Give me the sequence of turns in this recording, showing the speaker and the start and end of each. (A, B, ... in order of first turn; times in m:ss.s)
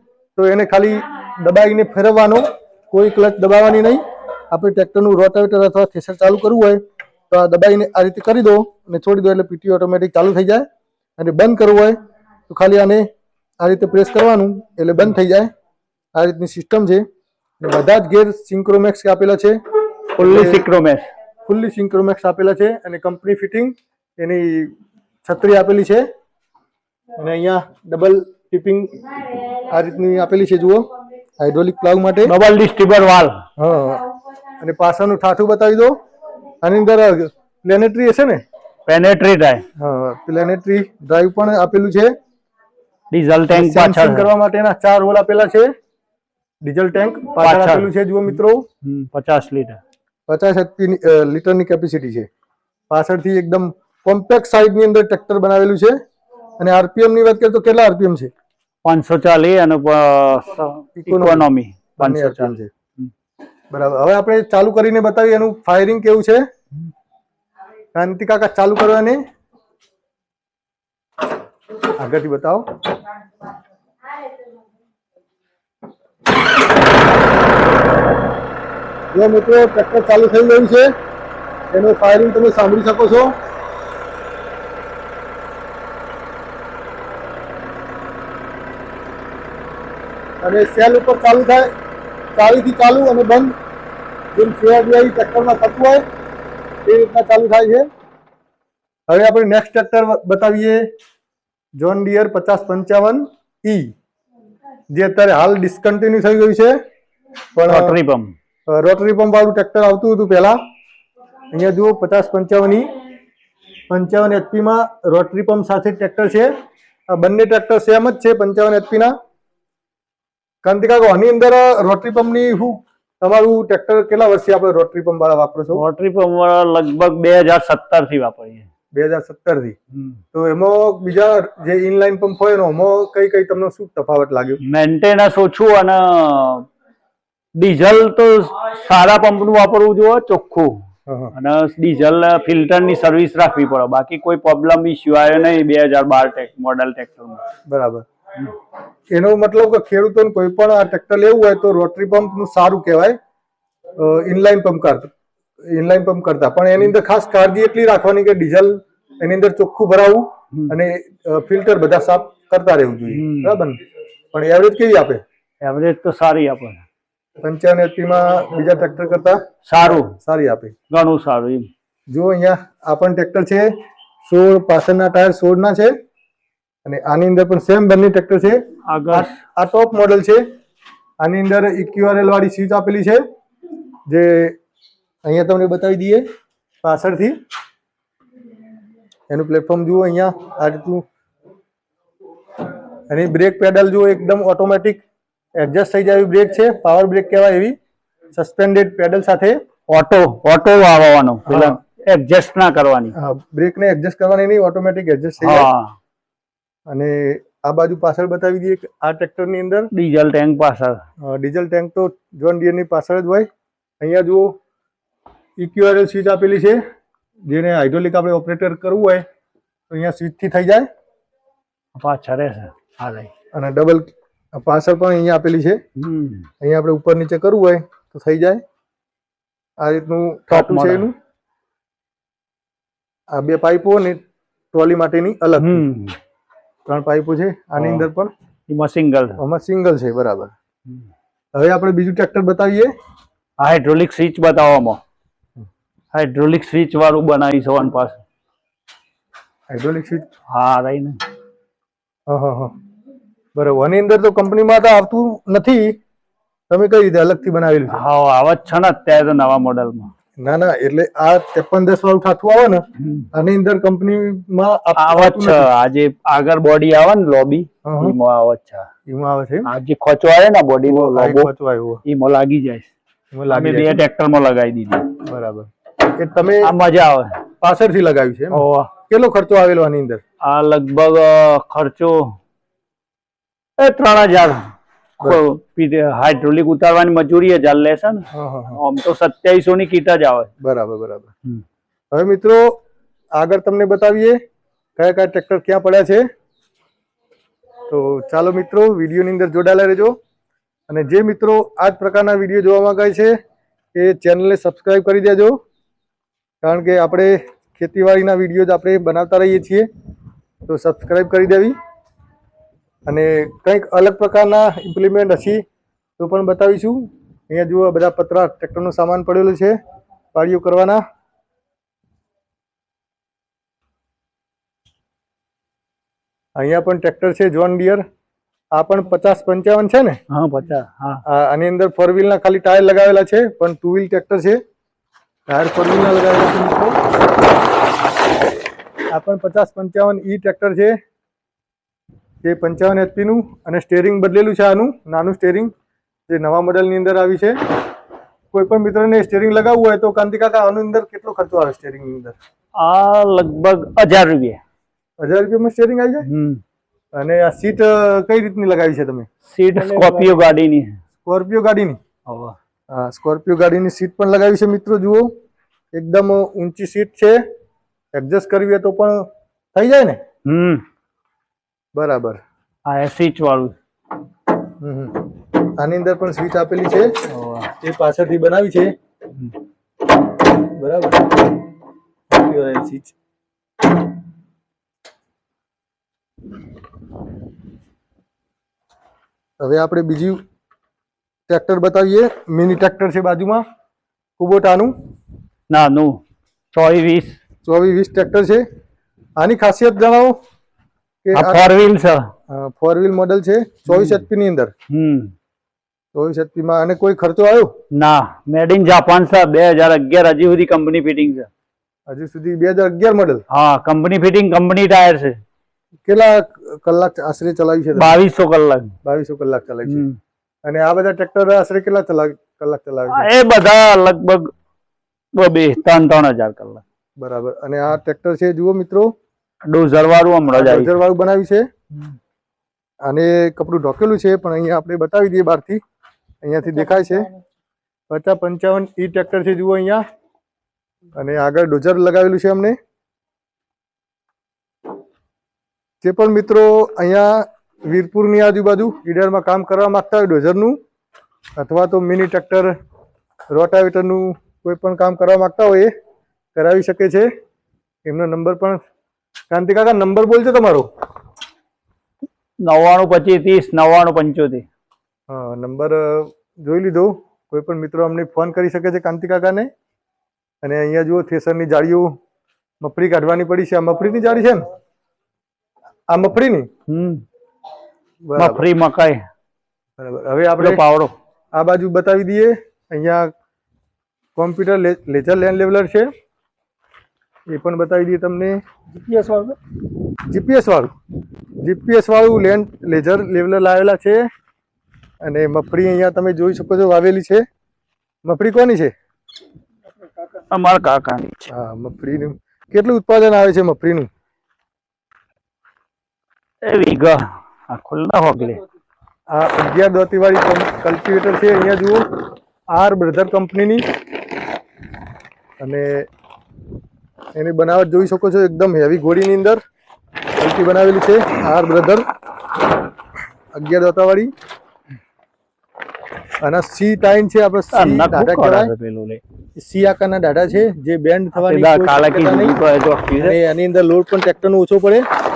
0:00.4-0:10.6 A
0:11.2-0:12.0 A
0:12.5-0:13.1 A
0:13.6-0:15.5 A
0:16.1-0:17.0 A
0:17.6-0:19.6 A
0:20.2-0:21.1 B
0:20.2-0:20.6 A
0:21.5-0:24.7 A
0:25.2-0:26.0 A
0:27.2-0:29.0 A
0:29.6-0:32.3 A
0:32.2-0:33.4 B
0:33.6-0:34.1 A
0:34.6-0:36.0 A
0:36.6-0:38.4 A
0:38.8-0:39.6 B
0:39.8-0:42.1 A
0:43.1-0:44.3 B
0:43.5-0:45.7 A
0:46.6-0:48.6 A
0:47.4-0:47.9 B
0:48.8-0:49.8 B
0:50.3-0:52.3 A
0:52.9-0:56.0 A
0:56.6-0:58.3 A
0:58.8-1:03.1 B
1:01.0-1:02.7 A
1:03.7-1:06.4 A
1:07.9-1:09.2 A
1:12.0-1:12.8 A
1:19.1-1:20.9 A
1:21.7-1:23.3 A
1:30.4-1:31.7 A
1:32.4-1:33.5 A
1:34.3-1:36.0 A
1:36.8-1:37.9 A
1:39.1-1:40.9 A
1:41.8-1:43.9 A
1:44.9-1:46.8 A
1:47.6-1:48.0 A
1:47.7-1:48.3 B
1:48.7-1:50.6 A
1:51.5-1:52.9 A
1:53.9-1:56.5 A
1:57.1-1:59.1 A
2:00.6-2:05.8 A
2:05.7-2:08.7 B
2:08.9-2:09.8 A
2:10.3-2:14.6 A
2:14.6-2:16.7 B
2:17.6-2:20.8 B
2:21.1-2:21.3 A
2:21.3-2:27.5 B
2:27.7-2:28.0 A
2:29.1-2:33.2 A
2:34.0-2:35.1 A
2:35.6-2:43.8 A
2:43.1-2:43.6 B
2:44.3-2:45.2 A
2:45.6-2:46.8 B
2:47.4-2:50.7 A
2:49.6-2:50.1 B
2:50.9-2:51.7 B
2:52.1-2:53.7 A
2:54.2-2:55.9 A
2:56.8-3:00.4 A
2:58.8-2:59.4 B
3:01.2-3:03.2 A
3:04.1-3:04.6 A
3:05.2-3:06.2 A
3:06.8-3:07.4 A
3:09.3-3:11.0 A
3:13.1-3:15.0 A
3:15.6-3:17.7 A
3:18.3-3:19.6 A
3:19.9-3:23.1 B
3:21.5-3:21.8 A
3:23.1-3:25.7 A
3:25.4-3:26.0 B
3:26.9-3:29.9 A
3:29.9-3:31.0 B
3:31.2-3:33.5 A
3:34.0-3:34.6 A
3:35.6-3:36.8 A
3:37.5-3:39.2 A
3:39.9-3:40.9 A
3:41.9-3:43.3 B
3:43.5-3:45.8 A
3:46.0-3:46.4 B
3:46.6-3:48.6 A
3:49.8-3:51.1 A
3:50.5-3:51.1 B
3:53.3-3:54.2 A
3:54.7-3:55.8 A
3:55.6-3:56.2 B
3:56.8-3:58.3 A
3:57.8-3:58.1 B
3:58.7-3:59.4 B
3:59.4-4:00.5 A
4:01.5-4:02.9 A
4:03.6-4:05.0 B
4:06.1-4:08.2 B
4:09.7-4:10.2 A
4:10.5-4:11.2 B
4:12.3-4:12.7 A
4:13.6-4:16.0 A
4:16.7-4:18.0 A
4:17.9-4:20.1 B
4:20.4-4:25.7 A
4:23.0-4:23.3 B
4:25.0-4:28.9 B
4:27.8-4:28.2 A
4:29.1-4:29.7 A
4:29.6-4:31.5 B
4:30.9-4:32.0 A
4:32.0-4:32.9 B
4:33.3-4:34.0 A
4:33.5-4:35.2 B
4:35.2-4:36.7 A
4:36.6-4:37.4 B
4:37.6-4:40.2 A
4:38.5-4:38.9 B
4:40.4-4:42.4 B
4:43.8-4:50.5 B
4:48.3-4:48.8 A
4:50.6-4:51.3 A
4:52.1-4:52.8 A
4:53.4-4:54.4 A
4:55.0-4:56.3 A
4:57.9-5:00.2 A
5:00.9-5:03.4 A
5:03.9-5:05.6 A
5:06.6-5:09.9 A
5:10.6-5:11.7 A
5:13.1-5:15.6 A
5:16.2-5:19.8 A
5:20.3-5:21.0 A
5:26.6-5:28.0 A
5:28.7-5:30.2 A
5:30.3-5:31.2 B
5:31.2-5:34.6 A
5:35.5-5:37.0 A
5:39.1-5:41.0 A
5:42.4-5:45.7 A
5:46.3-5:47.6 A
5:48.5-5:52.3 A
5:52.8-5:54.6 B
5:55.2-5:56.3 A
5:56.2-5:56.6 B
5:57.2-5:59.3 A
5:59.4-6:01.0 B
5:59.7-6:00.5 C
6:01.2-6:02.0 A
6:02.2-6:02.6 B
6:02.9-6:05.3 A
6:05.9-6:07.4 A
6:08.1-6:10.2 A
6:10.4-6:10.8 B
6:12.0-6:12.4 A
6:12.8-6:13.8 B
6:14.8-6:15.3 A
6:15.8-6:18.9 A
6:17.3-6:17.7 B
6:20.8-6:21.4 A
6:22.3-6:23.1 A
6:29.6-6:30.4 A
6:31.5-6:33.6 A
6:34.4-6:34.9 A
6:35.7-6:36.2 B
6:36.7-6:37.4 B
6:37.6-6:38.6 A
6:39.4-6:40.4 A
6:41.2-6:41.6 A
6:41.3-6:42.3 B
6:42.5-6:44.7 A
6:44.9-6:45.3 B
6:46.1-6:47.8 A
6:47.9-6:51.5 B
6:52.1-6:53.4 A
6:53.5-6:55.4 B
6:56.1-6:58.1 A
6:57.9-6:58.9 B
6:59.0-7:00.0 A
6:59.9-7:00.2 B
7:00.6-7:03.3 A
7:03.1-7:04.5 B
7:05.3-7:06.8 B
7:07.2-7:09.1 A
7:09.6-7:11.0 B
7:10.5-7:11.7 A
7:13.0-7:15.8 A
7:16.4-7:17.3 A
7:16.6-7:17.4 C
7:18.1-7:20.0 A
7:21.1-7:22.8 A
7:26.0-7:30.8 A
7:31.6-7:32.7 A
7:33.5-7:35.9 A
7:36.6-7:37.3 A
7:38.0-7:38.8 A
7:39.5-7:40.9 A
7:42.6-7:44.6 B
7:45.3-7:49.7 A
7:50.6-7:52.1 A
7:52.8-7:54.7 A
7:56.1-7:56.7 A
7:56.9-7:57.2 B
7:58.2-7:58.6 A
7:58.4-7:59.2 B
8:00.0-8:00.8 A
8:00.6-8:01.1 B
8:01.6-8:03.3 A
8:04.4-8:06.1 A
8:07.5-8:08.6 A
8:08.9-8:09.6 C
8:10.3-8:10.9 A
8:11.6-8:14.3 A
8:15.2-8:17.4 A
8:18.2-8:18.9 A
8:19.9-8:20.5 C
8:20.5-8:21.5 B
8:21.5-8:24.1 A
8:26.6-8:28.6 B
8:29.3-8:32.1 A
8:32.7-8:33.8 A
8:35.6-8:36.0 A
8:37.3-8:39.6 A
8:40.4-8:42.0 A
8:43.5-8:44.3 A
8:46.4-8:48.7 A
8:47.7-8:49.2 B
8:49.6-8:52.6 A
8:51.3-8:53.4 B
8:53.2-8:55.0 A